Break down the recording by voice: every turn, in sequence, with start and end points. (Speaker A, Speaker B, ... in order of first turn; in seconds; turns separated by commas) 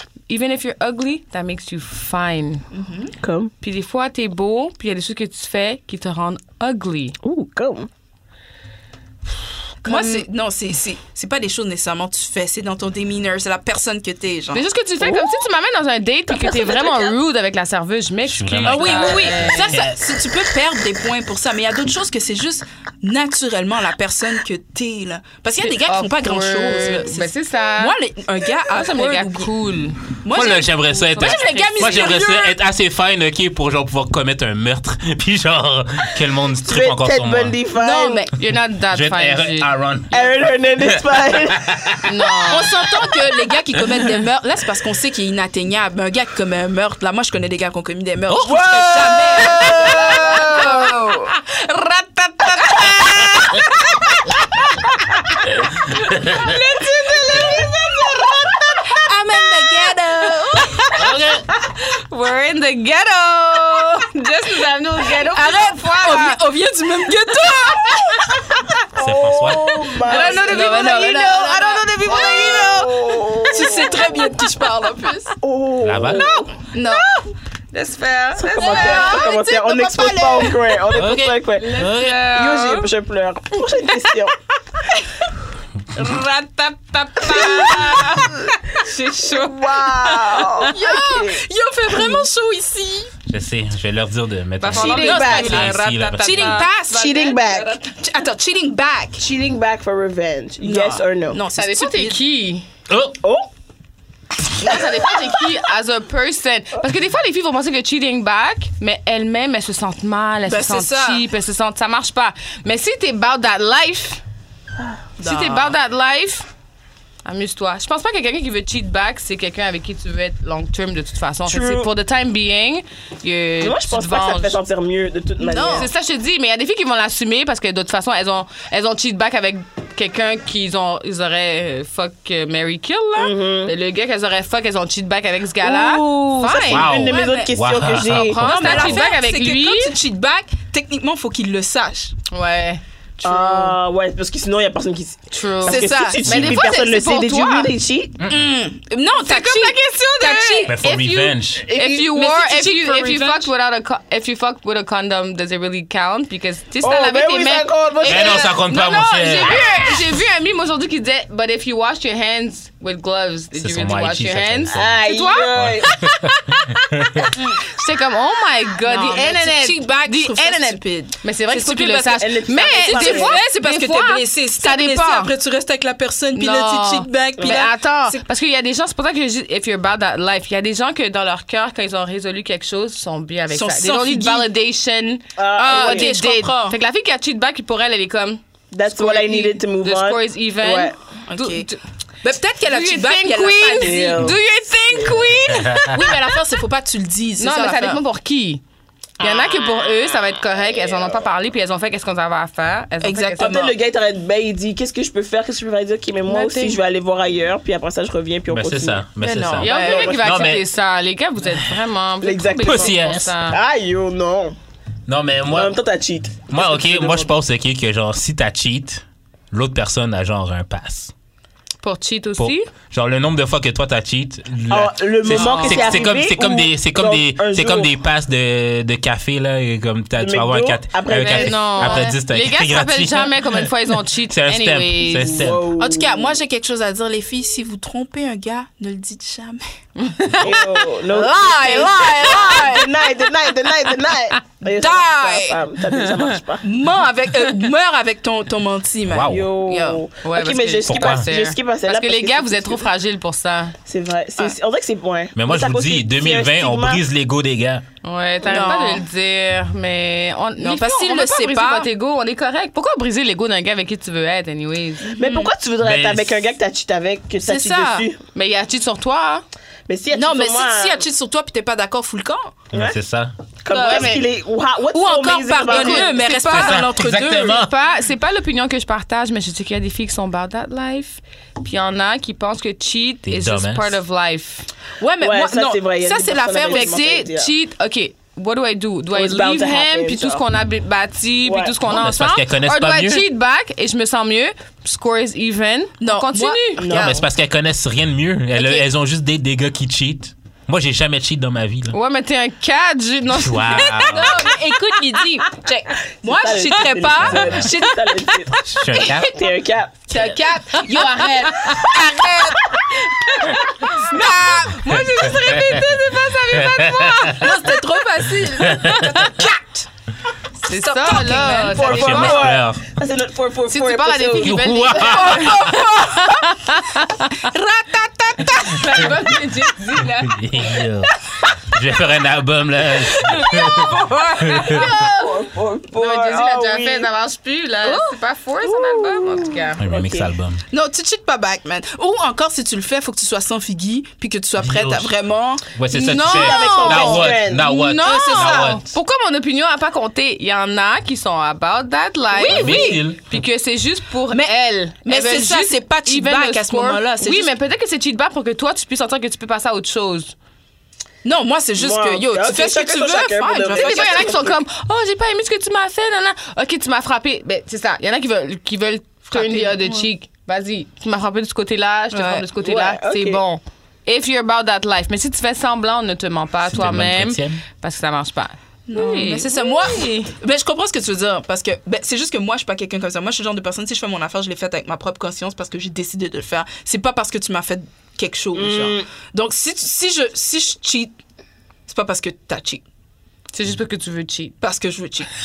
Speaker A: 0.3-2.6, Speaker B: 2.7-3.1, Speaker C: 3.2-3.5, Speaker A: 3.6-7.2, Speaker C: 7.2-7.9, Speaker A: 9.8-10.2, Speaker B: 9.8-14.6, Speaker A: 14.5-19.8, Speaker C: 15.0-15.4, Speaker C: 16.3-17.2, Speaker D: 18.3-20.1, Speaker B: 18.6-29.5, Speaker A: 25.6-28.0, Speaker A: 28.7-30.0, Speaker B: 30.2-32.6, Speaker D: 30.3-37.5, Speaker A: 31.1-32.2, Speaker C: 36.6-38.3, Speaker B: 37.8-38.3, Speaker A: 38.4-39.7, Speaker D: 38.9-42.1, Speaker C: 40.1-41.9, Speaker A: 42.1-42.7, Speaker B: 42.5-51.0, Speaker D: 48.3-50.1, Speaker C: 48.5-50.7, Speaker A: 49.4-59.0, Speaker D: 56.0-56.6, Speaker B: 59.0-60.9, Speaker A: 60.2-66.4, Speaker D: 60.9-61.5, Speaker B: 65.2-68.2, Speaker A: 67.5-68.8, Speaker D: 69.0-69.9, Speaker C: 69.0-71.0, Speaker B: 70.0-75.4, Speaker A: 70.0-72.9, Speaker C: 72.0-74.3, Speaker C: 75.4-76.5, Speaker D: 75.8-76.3, Speaker A: 76.1-79.3, Speaker B: 76.7-77.1, Speaker C: 78.4-84.3, Speaker B: 78.6-80.8, Speaker D: 80.9-82.3, Speaker A: 81.6-82.9, Speaker A: 86.0-90.7, Speaker C: 87.3-88.2, Speaker C: 89.3-91.4, Speaker B: 90.7-93.1, Speaker D: 93.3-96.7, Speaker A: 94.6-97.9, Speaker C: 94.7-95.7, Speaker B: 95.0-97.2, Speaker C: 96.9-97.8, Speaker B: 97.8-99.2, Speaker C: 99.2-101.4, Speaker B: 100.6-102.2, Speaker A: 101.5-102.7, Speaker D: 102.9-103.2, Speaker C: 103.2-103.5, Speaker A: 104.6-114.2, Speaker C: 104.6-105.4, Speaker B: 110.5-111.3, Speaker B: 115.2-115.8, Speaker A: 115.2-116.5, Speaker A: 117.2-124.6, Speaker C: 121.5-121.9, Speaker C: 123.6-125.9, Speaker B: 125.4-125.9, Speaker A: 125.6-136.9, Speaker C: 133.2-133.8, Speaker C: 135.6-138.5, Speaker D: 136.7-139.0, Speaker B: 137.1-137.5, Speaker A: 138.1-139.9, Speaker B: 138.4-142.2, Speaker A: 142.3-143.8, Speaker C: 143.2-148.2, Speaker A: 145.3-147.7, Speaker B: 145.7-146.3, Speaker D: 146.3-146.7, Speaker D: 148.2-148.5, Speaker B: 148.3-150.8, Speaker A: 149.2-175.3, Speaker D: 150.7-151.7, Speaker C: 151.7-152.1, Speaker B: 151.8-153.5, Speaker C: 156.8-158.6, Speaker D: 158.1-160.1, Speaker D: 163.6-165.0, Speaker C: 164.7-166.0, Speaker D: 165.5-167.3, Speaker B: 167.4-167.6, Speaker B: 168.8-178.2, Speaker C: 172.2-173.4, Speaker A: 176.4-191.8, Speaker C: 177.4-177.7, Speaker B: 183.5-184.5, Speaker C: 185.4-186.1, Speaker B: 185.7-186.8, Speaker C: 188.7-191.0, Speaker B: 191.3-191.7, Speaker B: 192.2-194.4, Speaker A: 192.7-196.4, Speaker C: 193.8-194.4, Speaker C: 194.9-195.2, Speaker D: 195.5-195.9, Speaker B: 195.8-198.0, Speaker A: 197.4-198.6, Speaker A: 199.2-203.7, Speaker C: 199.2-199.6, Speaker C: 200.6-201.2, Speaker B: 203.0-203.7, Speaker C: 203.4-209.1, Speaker A: 206.3-206.8, Speaker D: 208.5-210.6, Speaker B: 209.2-210.2, Speaker A: 209.6-213.6, Speaker C: 209.6-210.5, Speaker C: 212.2-214.6, Speaker D: 212.6-213.4, Speaker D: 215.1-215.8, Speaker C: 215.5-217.3, Speaker D: 216.5-221.1, Speaker A: 221.8-222.7, Speaker D: 222.4-235.7, Speaker C: 224.7-227.9, Speaker A: 225.3-226.2, Speaker C: 230.2-232.0, Speaker A: 231.1-235.5, Speaker C: 235.2-236.4, Speaker B: 235.8-239.7, Speaker A: 240.0-240.7, Speaker C: 240.4-246.7, Speaker B: 240.4-242.9, Speaker B: 244.8-245.6, Speaker B: 246.6-250.0, Speaker D: 249.1-249.5, Speaker C: 249.2-252.8, Speaker A: 250.2-253.8, Speaker D: 250.9-251.3, Speaker C: 253.9-257.0, Speaker D: 255.3-257.8, Speaker A: 258.0-265.1, Speaker B: 258.4-259.0, Speaker B: 260.6-261.9, Speaker B: 265.0-265.5, Speaker C: 265.1-268.2, Speaker D: 265.8-266.5, Speaker B: 267.4-268.1, Speaker A: 268.4-269.4, Speaker C: 269.9-271.0, Speaker B: 270.1-272.6, Speaker D: 272.7-273.3, Speaker C: 273.6-276.2, Speaker A: 273.7-274.2, Speaker B: 273.8-274.1, Speaker B: 274.9-277.6, Speaker A: 275.7-276.9, Speaker D: 276.5-277.7, Speaker A: 277.5-284.7, Speaker D: 283.2-284.0, Speaker B: 285.0-287.0, Speaker C: 285.2-287.5, Speaker A: 286.7-297.2, Speaker C: 289.1-290.4, Speaker C: 291.4-291.8, Speaker D: 291.9-293.2, Speaker B: 296.0-296.6, Speaker C: 296.8-297.2, Speaker D: 296.8-302.0, Speaker A: 301.9-305.5, Speaker D: 303.3-304.4, Speaker B: 303.7-308.3, Speaker C: 306.3-308.6, Speaker D: 307.2-307.6, Speaker D: 308.7-309.3, Speaker C: 309.2-310.1, Speaker B: 310.1-312.8, Speaker A: 310.7-317.8, Speaker B: 313.4-316.1, Speaker D: 315.5-315.8, Speaker D: 316.5-317.5, Speaker B: 317.3-319.9, Speaker D: 318.6-319.3, Speaker A: 318.9-319.3, Speaker B: 320.6-322.4, Speaker A: 320.6-322.5, Speaker C: 321.7-325.2, Speaker D: 321.8-323.0, Speaker A: 323.7-327.5, Speaker D: 324.4-325.8, Speaker B: 325.0-326.7, Speaker B: 327.4-329.1, Speaker A: 328.5-330.8, Speaker D: 330.3-331.1, Speaker D: 331.7-334.8, Speaker B: 333.3-335.4, Speaker A: 333.3-335.1, Speaker C: 334.7-337.1, Speaker A: 335.9-339.8, Speaker B: 337.8-338.2, Speaker C: 338.7-340.3, Speaker D: 339.8-340.6, Speaker B: 340.7-345.7, Speaker D: 344.6-345.1, Speaker D: 345.7-348.9, Speaker A: 345.9-360.4, Speaker C: 346.1-347.7, Speaker B: 348.0-348.8, Speaker B: 352.3-353.0, Speaker D: 352.5-353.2, Speaker B: 354.3-357.5, Speaker B: 361.2-364.5, Speaker C: 361.8-364.6, Speaker A: 363.7-380.3, Speaker B: 369.3-370.1, Speaker B: 372.1-372.5, Speaker C: 372.6-373.4, Speaker D: 376.7-377.6, Speaker B: 378.9-391.1, Speaker C: 388.5-389.1, Speaker B: 391.9-392.8, Speaker A: 393.5-394.6, Speaker B: 394.6-395.3